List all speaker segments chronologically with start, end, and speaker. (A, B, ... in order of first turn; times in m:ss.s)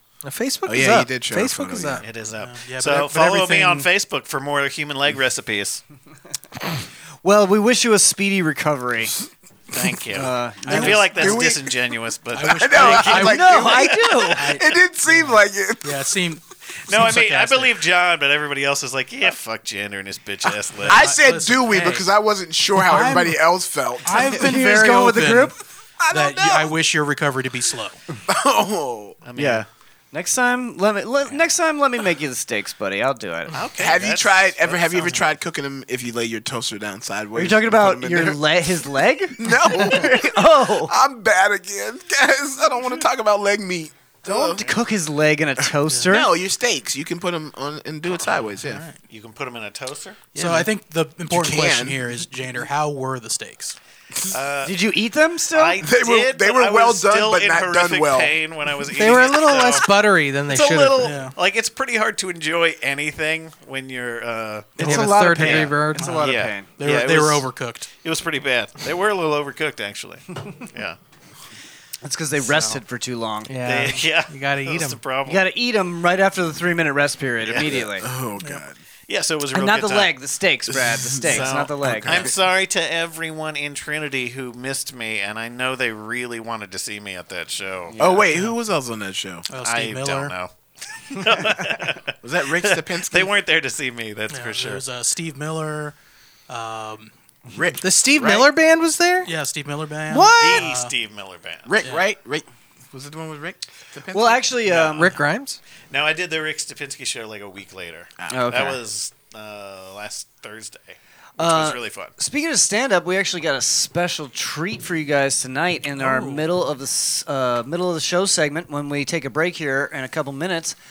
0:00.2-0:02.0 A
0:00.6-0:02.0 B
0:02.0-0:05.8 C
0:02.4-0:03.9 D
0:07.2-0:09.1 E
0:09.7-0:13.3 C
0:10.1-0:11.0 E
0:10.6-0:11.4 D
0:10.8-0:11.7 B
0:12.3-0:17.7 D
0:12.4-0:16.0 B
0:13.2-0:14.5 E
0:16.9-0:21.1 C
0:20.8-0:22.1 D
0:20.8-0:24.5 B
0:22.8-0:23.4 D
0:24.0-0:25.5 D
0:24.1-0:25.5 E
0:26.0-0:26.7 B
0:26.1-0:28.0 D
0:28.3-0:29.2 B
0:29.2-0:29.7 C
0:29.4-0:33.6 E
0:33.5-0:35.2 C
0:33.8-0:38.4 B
0:37.3-0:40.9 E
0:39.4-0:44.6 B
0:44.2-0:46.3 E
0:45.8-0:46.1 D
0:46.0-0:48.8 B
0:48.6-0:49.0 D
0:49.1-0:50.3 C
0:50.3-0:53.8 D
0:50.3-0:50.7 B
0:51.3-0:52.0 B
0:54.3-0:54.8 C
0:54.6-0:55.8 E
0:55.5-0:59.9 C
0:55.8-0:58.4 B
0:58.9-1:01.1 A
1:00.5-1:07.5 C
1:01.0-1:01.4 D
1:04.8-1:06.7 E
1:04.8-1:07.9 D
1:04.8-1:06.1 A
1:08.0-1:11.0 C
1:12.0-1:13.6 E
1:12.4-1:12.8 C
1:13.5-1:15.0 A
1:13.6-1:15.4 C
1:15.2-1:18.1 E
1:17.4-1:17.9 C
1:17.6-1:18.7 B
1:19.1-1:20.1 C
1:19.5-1:22.2 E
1:20.7-1:22.3 B
1:21.3-1:28.0 C
1:28.0-1:29.4 B
1:28.2-1:28.5 D
1:29.5-1:30.3 D
1:29.6-1:30.5 C
1:31.1-1:34.8 C
1:32.2-1:33.3 B
1:34.3-1:35.9 D
1:36.5-1:37.1 D
1:37.5-1:38.5 B
1:37.8-1:39.3 A
1:39.2-1:40.9 D
1:40.1-1:40.7 A
1:40.4-1:41.8 C
1:41.6-1:44.4 B
1:44.1-1:45.2 E
1:44.7-1:44.9 C
1:44.8-1:45.6 A
1:45.9-1:52.1 C
1:48.2-1:48.6 B
1:48.3-1:48.8 E
1:51.4-2:00.8 E
1:56.0-1:56.4 D